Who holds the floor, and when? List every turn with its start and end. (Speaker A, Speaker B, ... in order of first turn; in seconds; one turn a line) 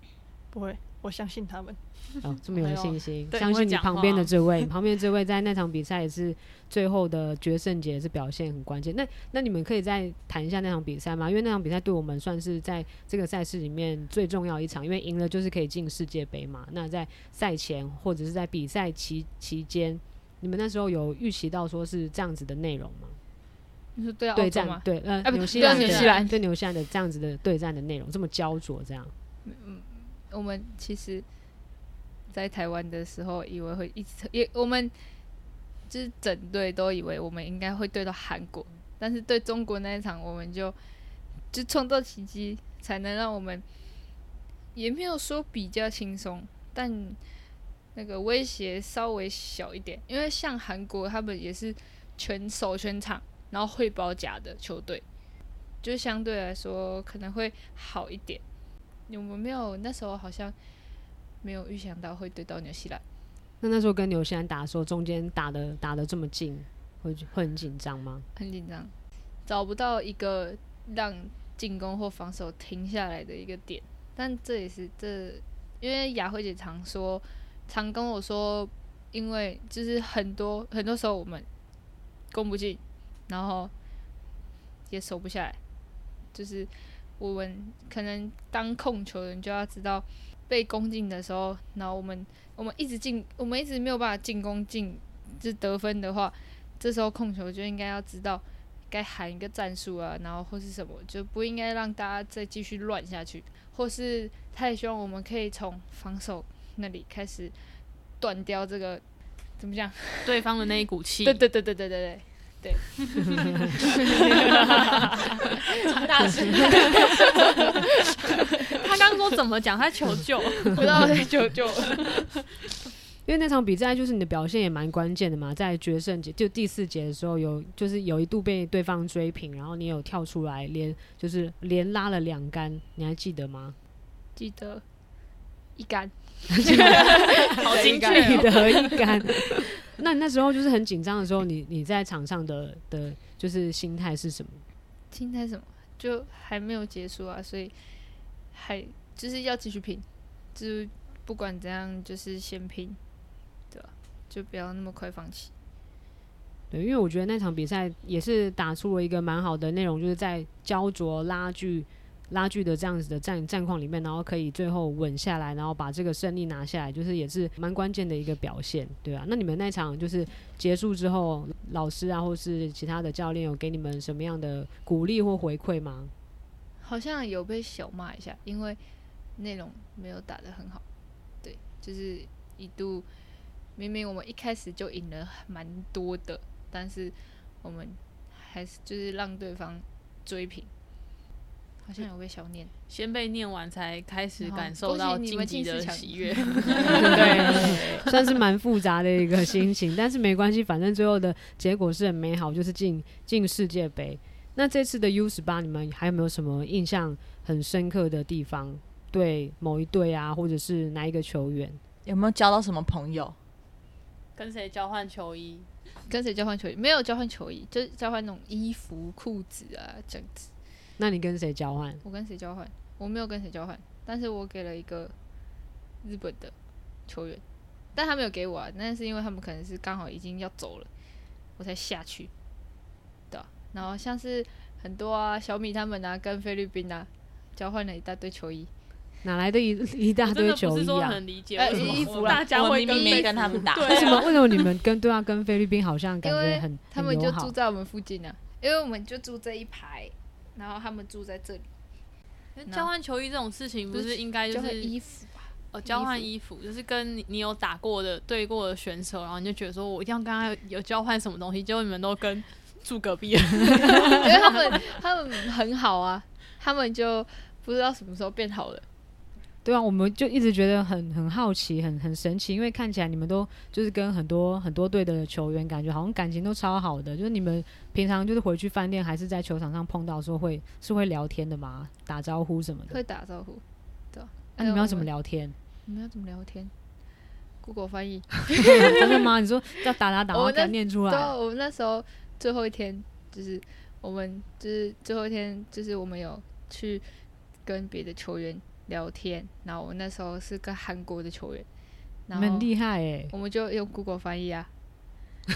Speaker A: 0.5-3.1
Speaker B: 2.2-23.2
Speaker C: 3.3-4.3
Speaker D: 24.0-26.4
Speaker B: 24.4-29.1
Speaker C: 25.6-26.1
Speaker D: 29.4-31.2
Speaker D: 32.3-34.9
Speaker D: 35.9-40.8
Speaker D: 41.5-43.6
Speaker D: 44.8-47.2
Speaker D: 48.0-55.0
Speaker D: 55.8-58.4
Speaker D: 59.1-60.5
Speaker D: 61.4-63.0
Speaker B: 63.6-68.3
Speaker D: 68.4-68.9
Speaker D: 69.5-81.5
Speaker D: 82.3-83.7
Speaker D: 84.9-85.6
Speaker D: 86.3-107.5
Speaker D: 108.2-109.0
Speaker D: 109.6-110.4
Speaker C: 110.2-111.4
Speaker D: 111.2-117.9
Speaker E: 116.1-116.6
Speaker C: 118.8-121.2
Speaker D: 120.7-122.2
Speaker B: 123.2-133.8
Speaker D: 134.4-134.8
Speaker D: 135.8-139.0
Speaker B: 136.6-144.6
Speaker C: 136.9-138.8
Speaker D: 145.1-147.8
Speaker D: 148.5-153.0
Speaker D: 153.7-155.5
Speaker B: 156.7-176.1
Speaker D: 176.8-178.8
Speaker D: 179.4-180.8
Speaker D: 181.4-183.1
Speaker D: 183.8-190.7
Speaker D: 191.8-192.7
Speaker C: 192.9-198.1
Speaker D: 194.4-198.1
Speaker B: 197.0-211.8
Speaker E: 212.1-213.4
Speaker C: 214.4-215.7
Speaker D: 216.1-220.5
Speaker B: 221.0-222.0
Speaker D: 222.0-225.1
Speaker D: 226.0-226.6
Speaker D: 227.1-227.4
Speaker D: 227.9-230.9
Speaker D: 231.6-232.3
Speaker D: 233.3-238.7
Speaker B: 239.2-241.2
Speaker C: 240.2-244.5
Speaker D: 241.6-244.2
Speaker B: 241.7-242.1
Speaker E: 241.7-244.2
Speaker B: 243.9-247.6
Speaker D: 246.2-251.7
Speaker C: 252.6-254.9
Speaker D: 253.9-256.3
Speaker C: 255.7-264.8
Speaker D: 264.1-268.9
Speaker B: 269.6-283.0
Speaker D: 282.9-285.1
Speaker B: 284.6-285.6
Speaker D: 285.9-286.7
Speaker D: 287.6-289.1
Speaker B: 288.7-291.4
Speaker D: 290.3-297.1
Speaker D: 297.6-301.7
Speaker D: 302.3-302.7
Speaker B: 302.3-303.3
Speaker D: 303.3-304.7